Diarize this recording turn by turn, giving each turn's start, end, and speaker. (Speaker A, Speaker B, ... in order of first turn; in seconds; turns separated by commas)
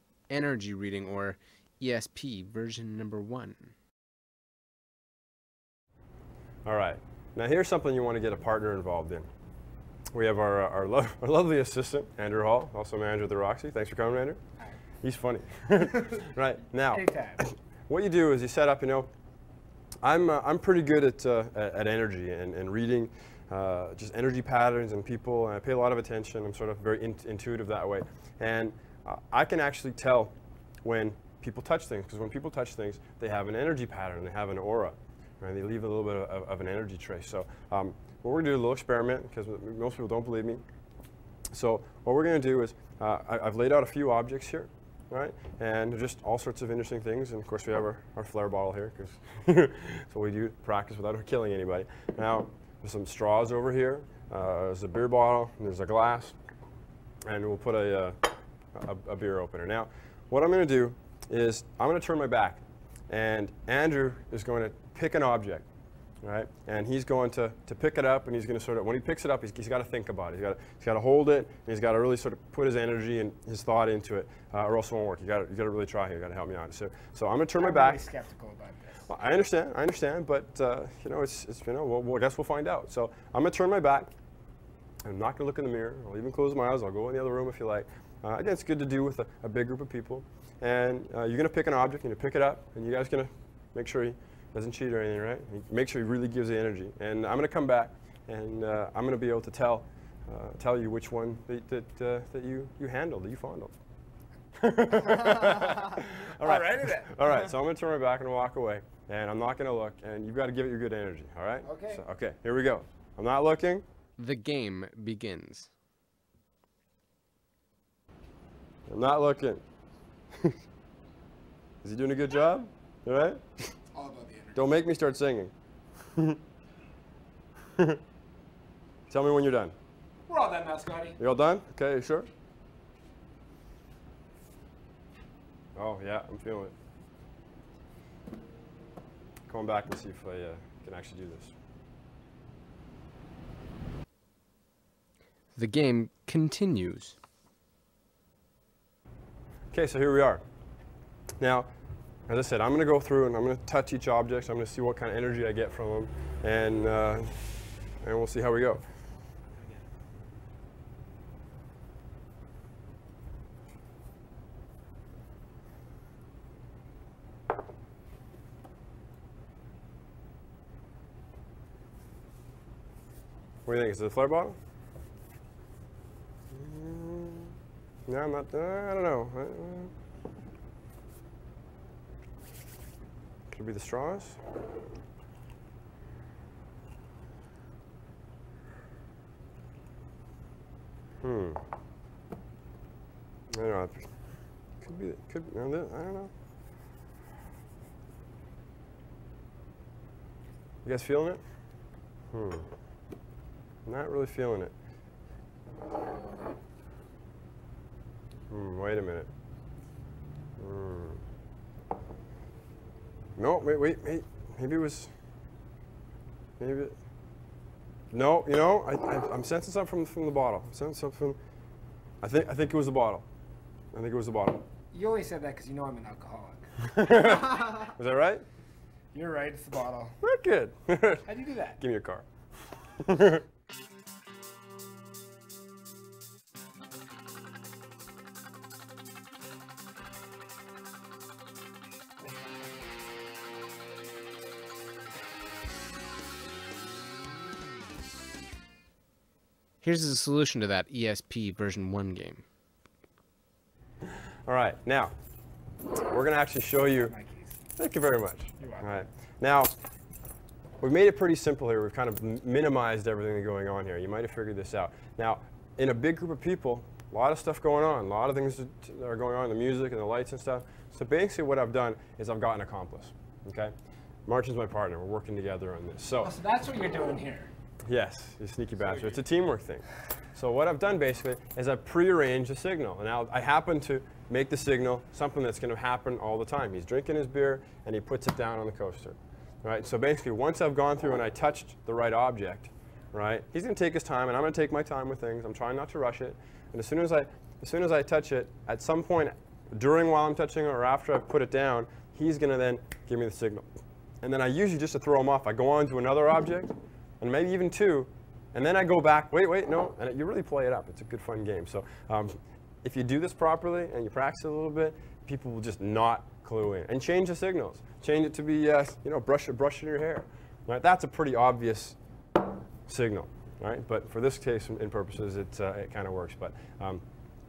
Speaker A: 0.3-3.7, Speaker B: 6.6-9.3, Speaker B: 10.1-14.4, Speaker B: 15.0-19.1, Speaker C: 16.9-17.4, Speaker B: 20.0-40.6, Speaker B: 41.5-56.4, Speaker B: 57.2-65.7, Speaker B: 66.2-78.0, Speaker C: 77.6-79.0, Speaker B: 79.1-84.1, Speaker B: 85.0-103.8, Speaker B: 104.5-113.8, Speaker C: 105.9-107.5, Speaker C: 111.6-112.0, Speaker A: 114.2-115.7, Speaker B: 118.9-119.6, Speaker B: 121.8-123.7, Speaker C: 123.9-124.7, Speaker B: 124.5-125.5, Speaker B: 129.1-129.8, Speaker C: 130.3-131.2, Speaker B: 131.2-132.3, Speaker B: 135.8-136.7, Speaker B: 139.5-141.5, Speaker A: 145.6-147.2, Speaker B: 149.7-150.4, Speaker B: 151.4-151.7, Speaker B: 152.3-158.9, Speaker B: 173.7-174.6, Speaker B: 176.5-179.9, Speaker B: 183.5-184.4, Speaker B: 191.2-191.6, Speaker B: 193.5-194.1, Speaker B: 194.8-196.3, Speaker B: 200.8-201.4, Speaker B: 202.3-202.7, Speaker B: 203.9-204.7, Speaker B: 208.5-209.3, Speaker B: 210.6-211.2, Speaker B: 213.4-215.1, Speaker B: 216.6-216.9, Speaker B: 218.1-221.4, Speaker B: 222.2-223.2, Speaker B: 223.9-224.7, Speaker C: 224.9-226.7, Speaker B: 226.8-228.4, Speaker C: 229.1-230.1, Speaker B: 230.2-232.3, Speaker C: 231.3-231.8, Speaker B: 233.0-233.4, Speaker A: 249.8-252.4, Speaker B: 254.1-255.1, Speaker B: 256.0-257.1, Speaker C: 256.9-257.6, Speaker B: 257.8-259.7, Speaker C: 258.6-259.0, Speaker B: 260.8-273.7, Speaker B: 274.2-276.3, Speaker C: 276.2-277.5, Speaker B: 277.9-303.6, Speaker B: 304.2-322.0, Speaker B: 322.9-327.0